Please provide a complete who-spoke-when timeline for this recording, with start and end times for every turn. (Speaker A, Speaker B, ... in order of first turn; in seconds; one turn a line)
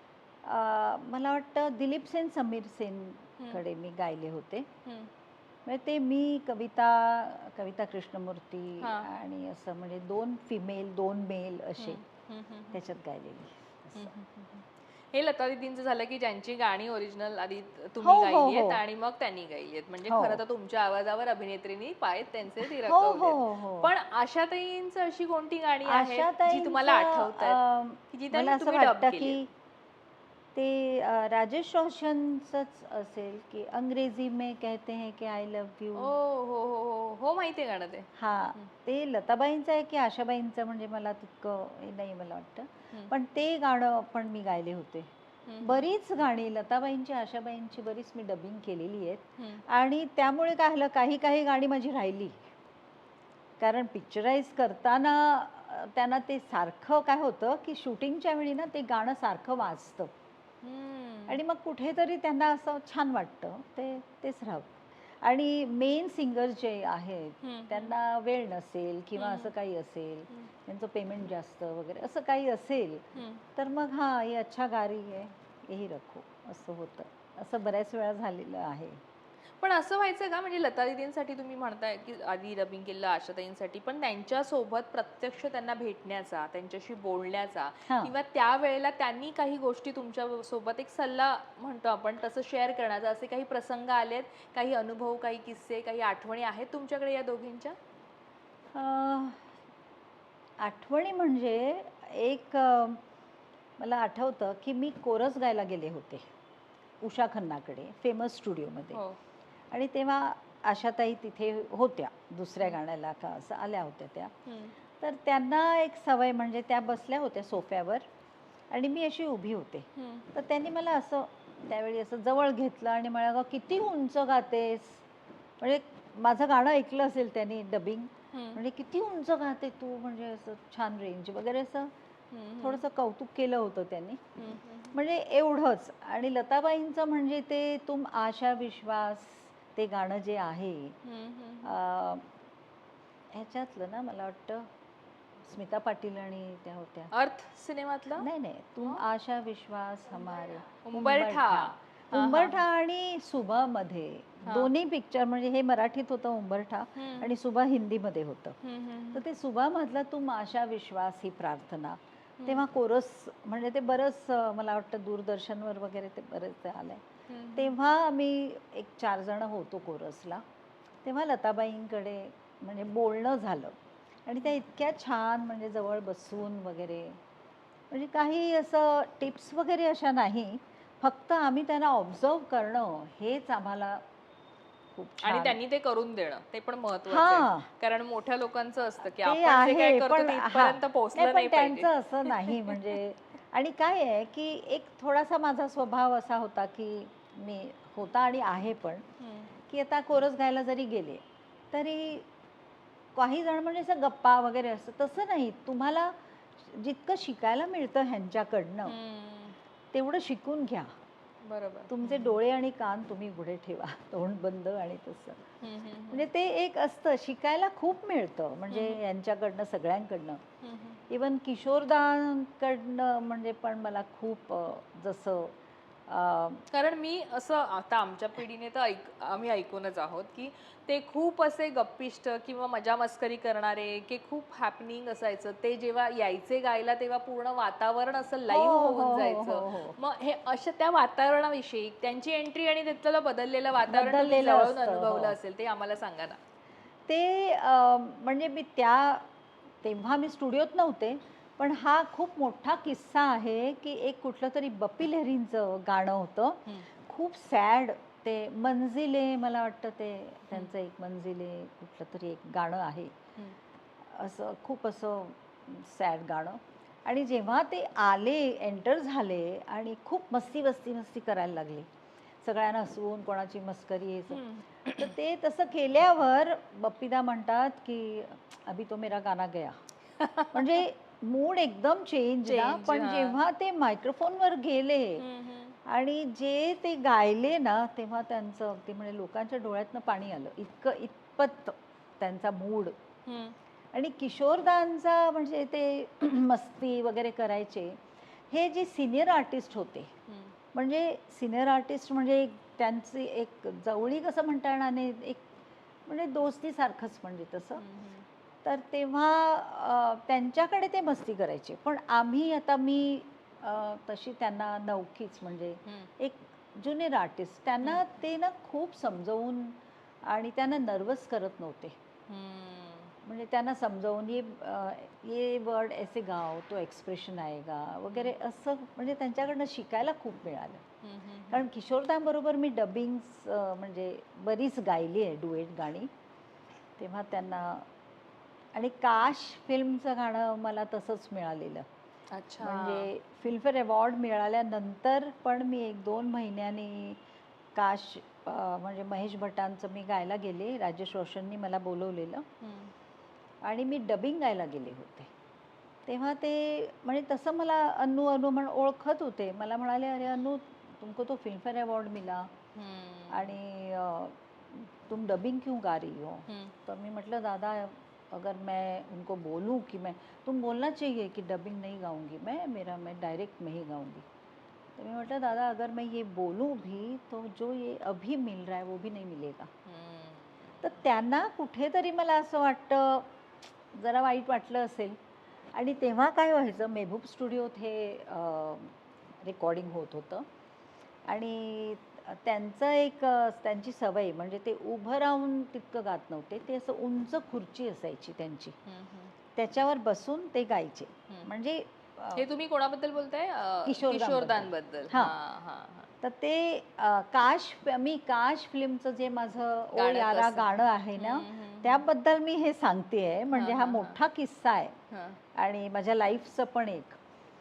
Speaker A: 0.4-4.7
Speaker A: 5.6-12.0
Speaker B: 8.8-9.1
Speaker B: 11.8-12.8
Speaker A: 12.7-14.1
Speaker B: 13.9-27.6
Speaker A: 18.0-18.8
Speaker A: 20.1-20.4
Speaker A: 22.6-23.9
Speaker A: 25.8-29.5
Speaker B: 28.1-29.4
Speaker A: 30.5-36.1
Speaker B: 36.0-38.7
Speaker A: 38.1-45.1
Speaker B: 45.5-45.9
Speaker A: 45.6-52.5
Speaker B: 49.4-49.6
Speaker A: 53.6-60.1
Speaker B: 60.6-61.4
Speaker A: 61.3-73.0
Speaker B: 67.4-67.9
Speaker B: 69.2-69.5
Speaker B: 73.1-73.4
Speaker A: 73.5-79.0
Speaker B: 79.6-97.8
Speaker A: 87.9-88.1
Speaker A: 98.7-99.5
Speaker A: 100.6-103.0
Speaker A: 103.8-106.2
Speaker A: 107.0-109.0
Speaker B: 108.9-109.2
Speaker A: 109.7-114.3
Speaker B: 114.5-114.7
Speaker A: 115.0-118.0
Speaker A: 118.7-125.0
Speaker B: 120.0-120.3
Speaker A: 125.6-131.9
Speaker B: 128.3-128.6
Speaker B: 132.3-132.8
Speaker A: 132.6-134.2
Speaker B: 134.4-134.9
Speaker A: 134.9-140.9
Speaker B: 141.0-141.7
Speaker A: 141.6-142.2
Speaker A: 143.3-144.7
Speaker A: 145.4-147.1
Speaker B: 147.1-148.3
Speaker A: 148.2-158.6
Speaker B: 150.8-152.6
Speaker B: 154.4-154.7
Speaker B: 156.9-157.3
Speaker B: 158.6-159.2
Speaker A: 159.1-167.0
Speaker B: 167.3-167.8
Speaker A: 167.6-170.4
Speaker A: 171.0-173.7
Speaker A: 174.2-177.2
Speaker A: 177.9-184.0
Speaker A: 184.9-185.6
Speaker B: 185.2-192.8
Speaker A: 187.1-187.7
Speaker A: 189.1-199.0
Speaker B: 199.2-199.5
Speaker A: 199.7-202.3
Speaker A: 203.1-209.0
Speaker B: 208.8-209.6
Speaker A: 209.9-210.9
Speaker B: 211.4-212.3
Speaker A: 211.9-215.4
Speaker B: 215.6-216.3
Speaker A: 216.1-220.4
Speaker B: 218.7-219.0
Speaker B: 220.6-221.0
Speaker A: 221.1-225.5
Speaker A: 226.1-226.6
Speaker B: 226.7-246.4
Speaker A: 238.5-240.0
Speaker A: 243.9-245.4
Speaker A: 247.1-249.3
Speaker A: 249.8-263.1
Speaker A: 264.1-271.9
Speaker A: 272.4-279.8
Speaker B: 274.3-275.1
Speaker B: 280.2-280.8
Speaker A: 280.5-285.3
Speaker B: 282.4-283.4
Speaker B: 285.2-285.8
Speaker A: 285.9-292.9
Speaker B: 293.2-293.5
Speaker A: 293.9-298.0
Speaker A: 298.5-300.1
Speaker B: 300.3-300.5
Speaker A: 300.7-305.4
Speaker A: 306.1-307.8
Speaker B: 307.8-308.2
Speaker A: 308.6-321.9
Speaker B: 322.3-323.1
Speaker A: 323.2-330.8
Speaker B: 331.0-331.6
Speaker A: 331.5-336.1
Speaker A: 337.0-337.9
Speaker A: 338.7-341.8
Speaker B: 342.3-343.1
Speaker A: 342.6-347.2
Speaker A: 347.7-352.4
Speaker B: 352.6-352.9
Speaker A: 353.6-355.3
Speaker A: 356.1-362.5
Speaker B: 362.7-363.5
Speaker A: 363.3-374.2
Speaker B: 366.5-366.7
Speaker A: 375.0-379.7
Speaker B: 379.9-380.9
Speaker A: 380.8-383.3
Speaker A: 383.9-385.2
Speaker A: 385.7-390.4
Speaker A: 391.3-398.8
Speaker B: 398.9-399.3
Speaker A: 399.6-402.5
Speaker B: 402.3-406.1
Speaker A: 403.8-405.3
Speaker A: 406.2-414.9
Speaker B: 409.9-412.0
Speaker B: 413.5-414.2
Speaker B: 415.1-415.4
Speaker A: 415.5-417.2